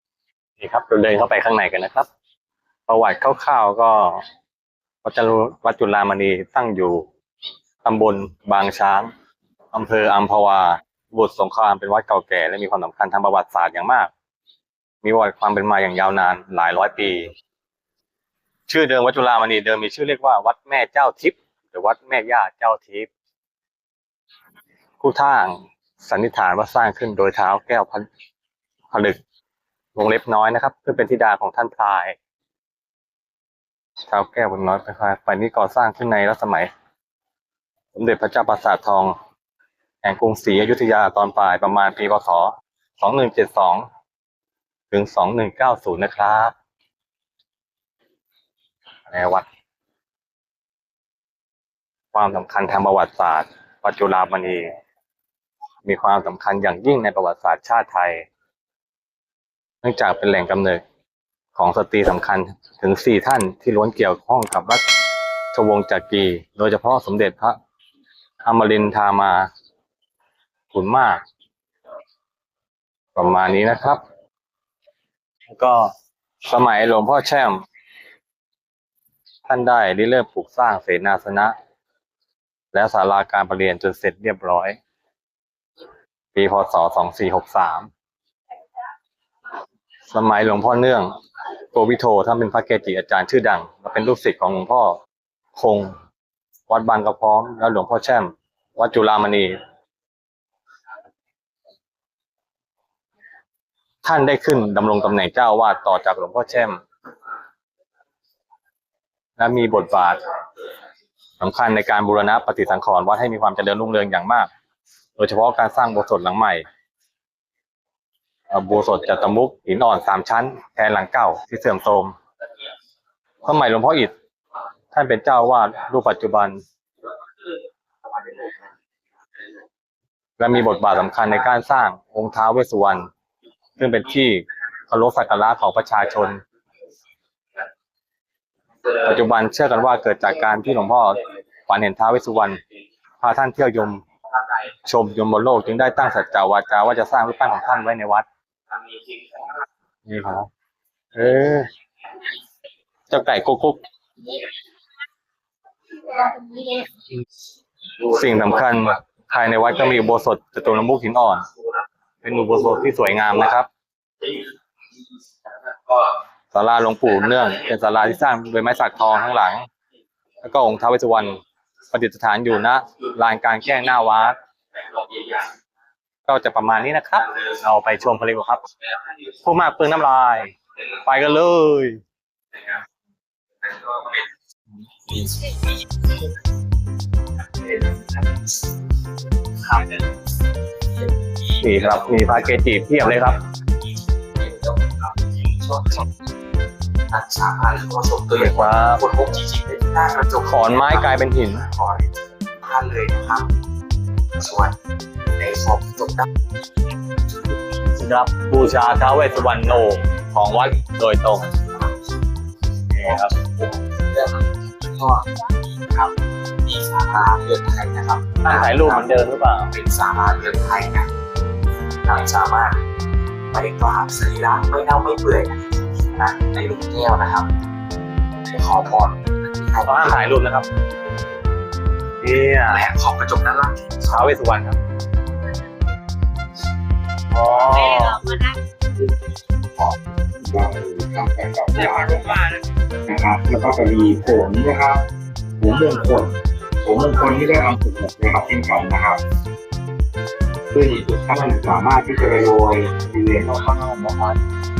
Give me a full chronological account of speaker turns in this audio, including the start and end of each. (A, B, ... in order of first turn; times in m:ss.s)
0:00.6-0:02.1 A
0:02.9-0:04.2 A
0:05.0-0:07.0 A
0:07.8-0:09.1 A
0:09.7-0:14.1 A
0:15.0-0:17.3 A
0:18.7-0:23.1 A
0:25.0-0:28.0 A
0:28.9-0:29.2 A
0:29.9-0:32.2 A
0:34.1-0:36.7 A
0:37.9-0:39.1 A
0:40.0-0:43.9 A
0:44.9-0:46.5 A
0:49.1-0:49.4 A
0:52.1-0:54.7 A
0:55.8-0:58.3 A
0:59.8-1:00.8 A
1:01.5-1:04.8 A
1:05.5-1:07.6 A
1:08.4-1:09.5 A
1:10.7-1:11.2 A
1:13.1-1:14.0 A
1:15.5-1:15.9 A
1:16.4-1:17.6 A
1:19.4-1:21.5 A
1:22.7-1:24.8 A
1:26.3-1:27.9 A
1:30.1-1:31.1 A
1:31.7-1:35.0 A
1:35.5-1:35.9 A
1:36.7-1:39.6 A
1:44.0-1:46.8 A
1:49.4-1:50.2 A
1:51.4-1:54.5 A
1:55.2-1:56.6 A
1:58.5-2:02.1 A
2:03.4-2:04.1 A
2:04.9-2:06.6 A
2:10.4-2:13.0 A
2:13.8-2:16.4 A
2:19.0-2:22.6 A
2:23.2-2:24.0 A
2:24.8-2:28.3 A
2:30.1-2:30.5 A
2:31.1-2:31.7 A
2:33.1-2:33.8 A
2:36.3-2:36.8 A
2:38.0-2:41.5 A
2:42.2-2:43.7 A
2:46.5-2:49.6 A
2:50.4-2:51.3 A
2:51.9-2:54.4 A
2:56.2-2:58.6 A
2:59.4-3:02.0 A
3:05.1-3:05.7 B
3:07.6-3:08.4 B
3:09.6-3:10.0 B
3:10.9-3:16.1 B
3:11.6-3:13.4 A
3:17.1-3:23.5 B
3:18.4-3:19.0 A
3:20.4-3:21.6 A
3:24.3-3:24.8 B
3:25.4-3:26.3 B
3:27.3-3:27.6 B
3:28.0-3:31.5 A
3:33.0-3:41.1 B
3:33.0-3:33.3 A
3:38.4-3:39.7 A
3:42.0-3:42.8 B
3:43.5-3:47.5 B
3:48.5-3:50.2 B
3:49.8-3:50.6 A
3:52.2-3:52.8 A
3:52.7-3:54.4 B
3:54.1-3:54.8 A
3:57.3-3:58.4 A
4:00.4-4:02.4 C
4:03.0-4:05.0 C
4:05.6-4:09.2 C
4:10.7-4:14.4 C